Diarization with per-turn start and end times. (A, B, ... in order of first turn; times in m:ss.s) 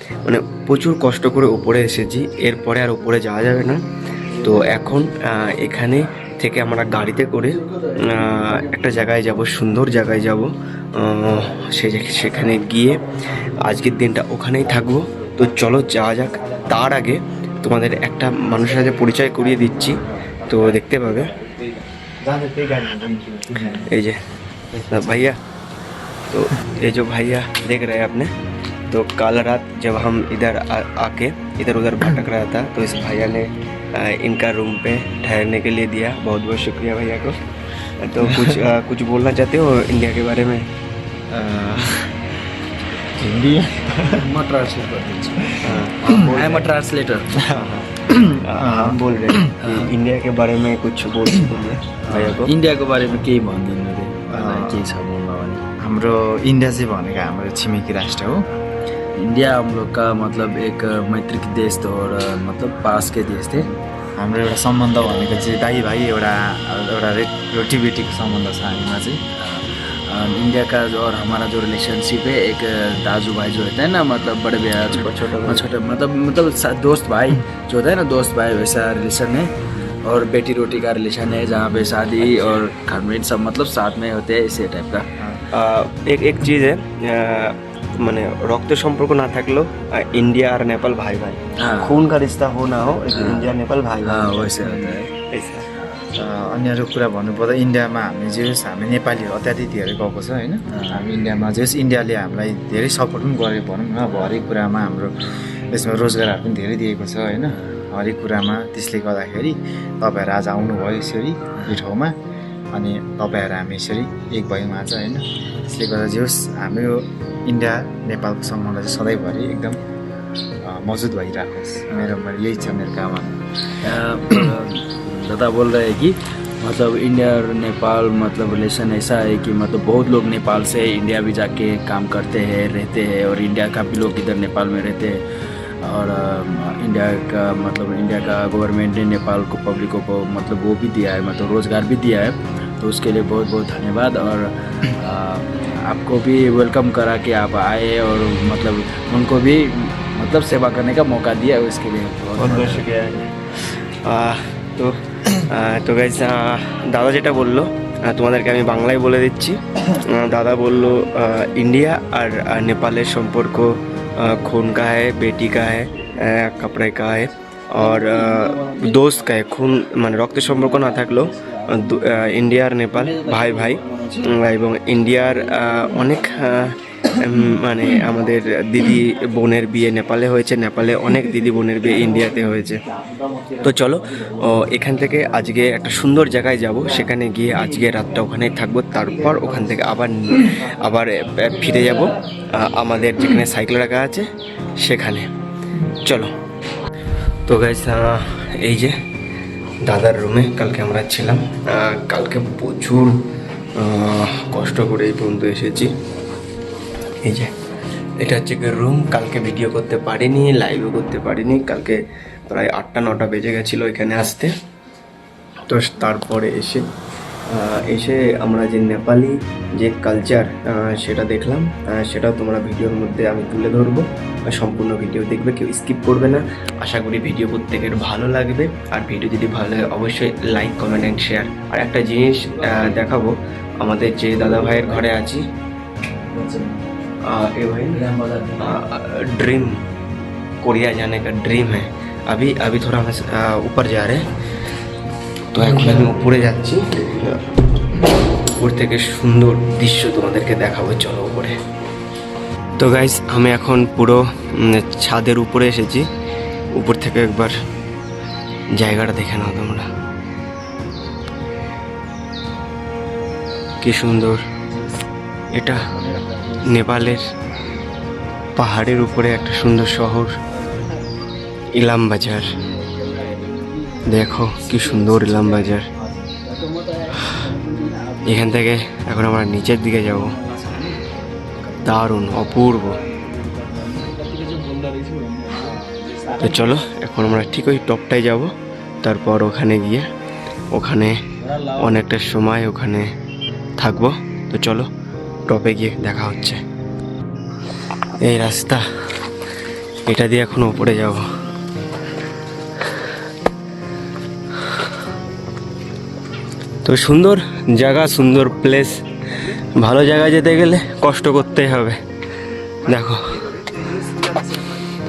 0:00.2-0:13.0 A
0:13.6-0:21.3 A
0:22.2-0:23.9 B
0:23.7-0:24.2 A
0:24.8-0:25.4 A
0:26.3-0:28.3 A
0:28.9-0:37.4 A
0:38.0-0:40.7 A
0:41.3-0:42.1 A
0:43.2-0:44.2 A
0:44.0-0:47.3 C
0:45.6-0:46.7 A
0:47.4-0:52.5 A
0:48.2-0:49.0 B
0:49.4-0:49.9 C
0:52.1-0:52.4 B
0:52.4-0:55.6 C
0:54.3-0:54.8 B
0:55.8-0:58.4 B
0:59.2-1:03.7 C
1:04.2-1:09.2 B
1:09.3-1:19.5 C
1:14.9-1:15.7 A
1:20.0-1:25.1 C
1:22.2-1:22.6 A
1:25.2-1:25.4 B
1:25.5-1:35.7 A
1:31.6-1:32.0 C
1:33.1-1:35.1 C
1:36.2-1:52.1 B
1:40.7-1:41.1 C
1:52.7-1:59.8 B
2:00.6-2:03.3 B
2:03.8-2:15.2 C
2:15.8-2:32.9 C
2:32.4-3:02.8 A
2:53.3-2:54.1 C
3:03.6-3:14.3 A
3:14.8-3:15.3 A
3:15.8-3:16.3 A
3:17.5-3:19.0 A
3:19.8-3:23.2 A
3:23.8-3:25.9 A
3:27.2-3:27.5 A
3:28.2-3:32.0 A
3:32.5-3:34.5 A
3:35.7-3:36.8 A
3:37.5-3:55.4 A
3:56.3-3:56.8 C
3:57.2-3:58.0 A
3:57.9-3:58.8 C
3:58.6-3:59.8 A
4:00.6-4:04.2 A
4:05.5-4:07.5 A
4:08.4-4:11.6 A
4:12.8-4:16.1 A
4:16.7-4:17.6 A
4:18.8-4:19.9 A
4:23.8-4:24.4 A
4:25.5-4:25.9 A
4:25.8-4:26.7 C
4:26.6-4:27.2 A
4:28.6-4:30.4 A
4:31.7-4:32.5 A
4:32.6-4:35.7 C
4:34.1-4:35.9 A
4:36.2-4:38.6 C
4:38.2-4:40.4 A
4:40.3-4:41.0 C
4:41.8-4:43.0 A
4:42.5-4:46.8 C
4:46.4-4:48.5 A
4:49.0-4:50.0 A
4:50.7-4:51.2 A
4:51.4-4:52.0 C
4:51.7-4:53.1 A
4:53.8-4:54.9 A
4:55.5-4:56.6 A
4:58.2-4:58.8 A
5:00.1-5:01.3 A
5:06.8-5:12.0 A
5:12.8-5:14.6 A